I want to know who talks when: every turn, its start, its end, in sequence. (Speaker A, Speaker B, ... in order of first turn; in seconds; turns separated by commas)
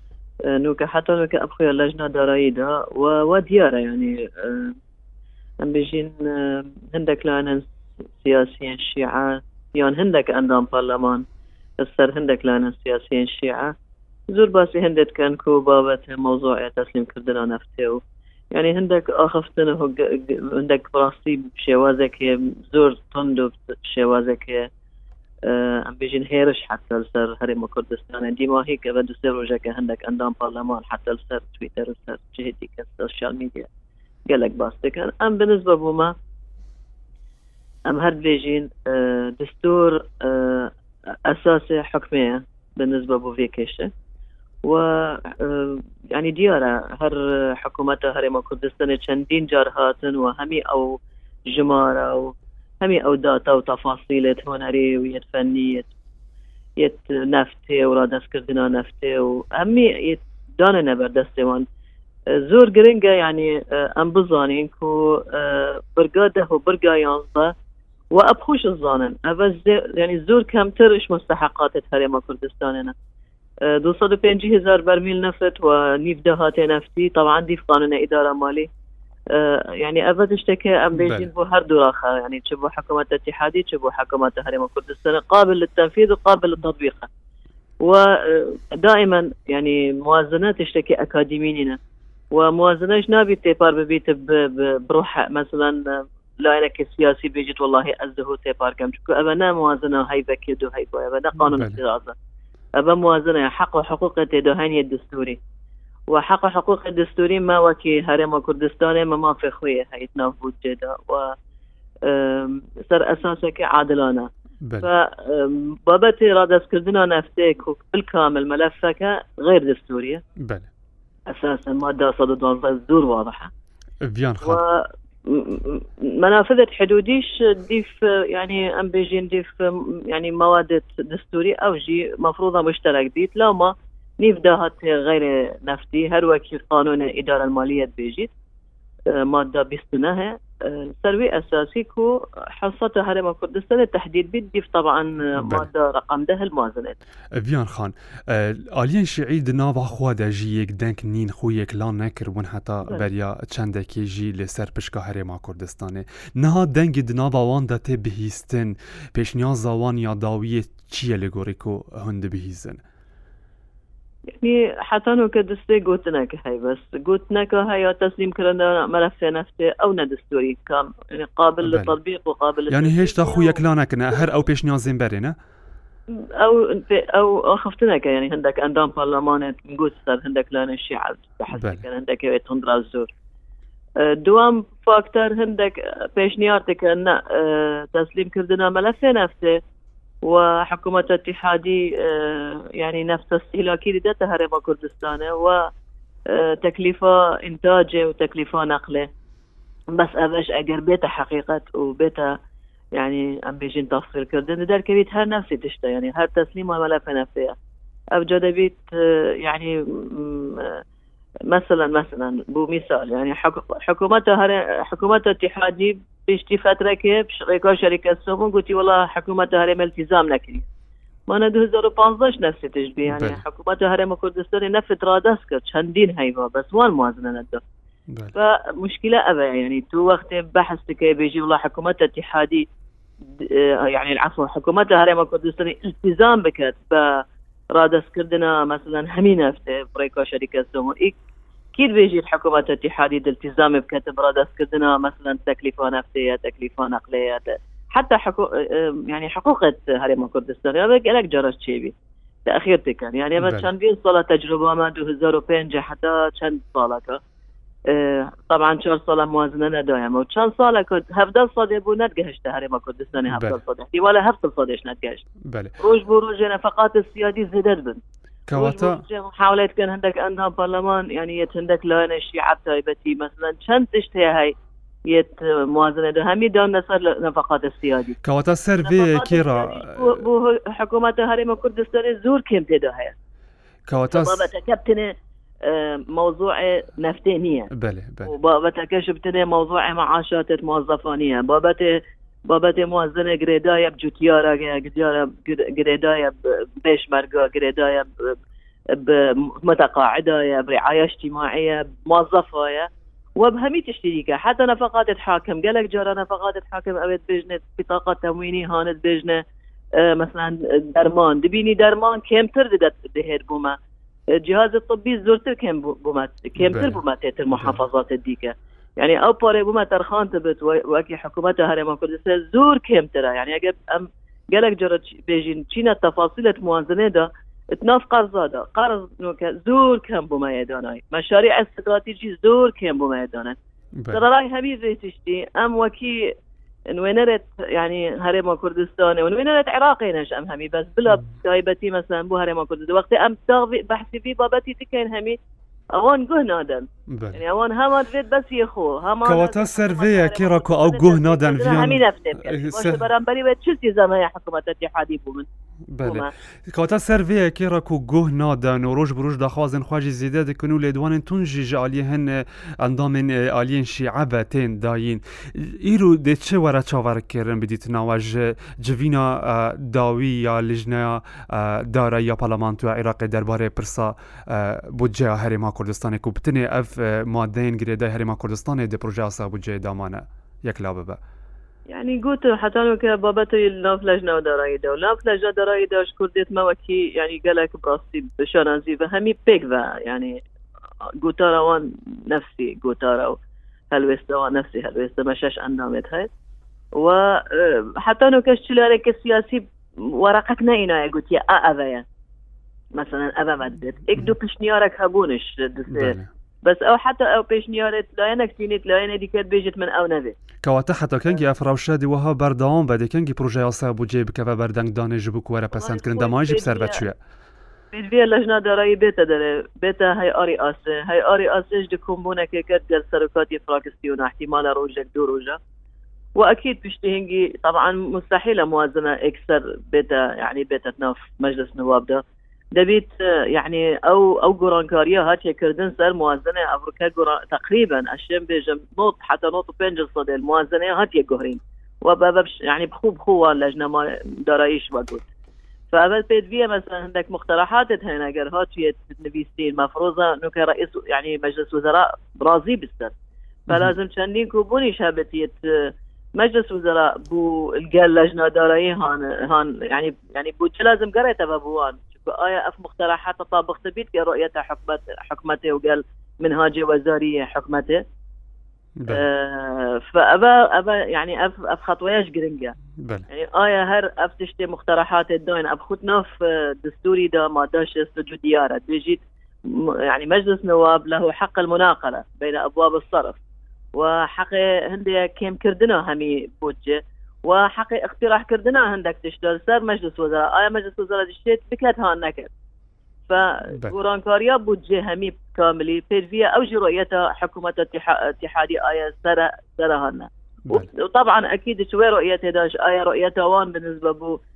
Speaker A: 0.5-4.8, Speaker A: 5.6-7.7, Speaker A: 8.2-11.2, Speaker A: 11.8-13.7, Speaker A: 14.3-18.0, Speaker A: 18.5-24.7, Speaker A: 25.5-33.7, Speaker A: 34.3-36.1, Speaker A: 37.9-40.7, Speaker A: 41.3-43.9, Speaker A: 44.7-55.9, Speaker A: 56.8-61.6, Speaker A: 62.3-67.5, Speaker A: 68.1-72.9, Speaker A: 73.7-78.7, Speaker A: 79.3-87.1, Speaker B: 81.0-81.3, Speaker A: 87.8-91.8, Speaker A: 92.3-102.1, Speaker B: 101.4-101.8, Speaker A: 102.8-105.4, Speaker A: 106.1-111.3, Speaker A: 112.1-114.3, Speaker B: 114.6-114.9, Speaker A: 114.8-120.2, Speaker B: 120.4-120.7, Speaker A: 121.3-123.5, Speaker B: 124.0-124.6, Speaker A: 124.4-138.3, Speaker A: 139.1-147.0, Speaker B: 145.4-145.7, Speaker B: 147.4-162.8, Speaker A: 164.3-173.6, Speaker B: 171.6-172.0, Speaker B: 172.7-175.3, Speaker A: 176.2-183.1, Speaker B: 181.5-181.8, Speaker A: 184.0-189.6, Speaker A: 190.2-195.6, Speaker A: 196.3-199.1, Speaker A: 199.9-202.3, Speaker A: 202.9-207.5, Speaker A: 208.1-210.8, Speaker A: 211.5-220.7, Speaker A: 221.3-227.6, Speaker B: 223.1-223.4, Speaker A: 228.3-232.6, Speaker A: 233.4-237.2, Speaker A: 237.7-241.2, Speaker A: 241.8-251.9, Speaker A: 252.4-257.2, Speaker B: 253.4-253.7, Speaker A: 257.9-265.2, Speaker B: 263.2-263.6, Speaker B: 265.5-265.7, Speaker A: 265.8-268.0, Speaker B: 268.5-269.0, Speaker A: 268.5-274.5, Speaker A: 275.1-278.2, Speaker B: 278.2-280.2, Speaker A: 278.8-283.1, Speaker B: 283.9-284.4, Speaker A: 284.1-285.1, Speaker A: 285.6-287.7, Speaker B: 287.7-288.3, Speaker A: 288.2-291.9, Speaker A: 292.5-298.3, Speaker A: 298.9-309.4, Speaker A: 310.0-313.8, Speaker A: 314.4-333.6, Speaker B: 316.6-317.0, Speaker B: 317.5-317.8, Speaker B: 334.0-334.3, Speaker A: 334.1-336.2, Speaker A: 336.9-345.4, Speaker A: 345.9-355.5, Speaker B: 347.1-347.4, Speaker B: 349.2-353.1, Speaker B: 355.9-381.2, Speaker A: 356.0-356.3, Speaker A: 381.9-390.4, Speaker A: 391.2-393.4, Speaker A: 393.9-396.3, Speaker A: 397.0-399.6, Speaker A: 400.2-402.1, Speaker A: 403.0-410.3, Speaker B: 405.9-406.3, Speaker B: 410.6-417.2, Speaker A: 415.7-417.0, Speaker A: 417.9-425.6, Speaker A: 426.4-432.2, Speaker A: 432.8-445.3, Speaker A: 445.9-453.1, Speaker A: 453.7-468.0, Speaker B: 469.0-469.2, Speaker A: 469.1-472.8, Speaker B: 473.0-473.3, Speaker A: 473.3-483.4, Speaker A: 483.9-492.5, Speaker A: 493.3-504.4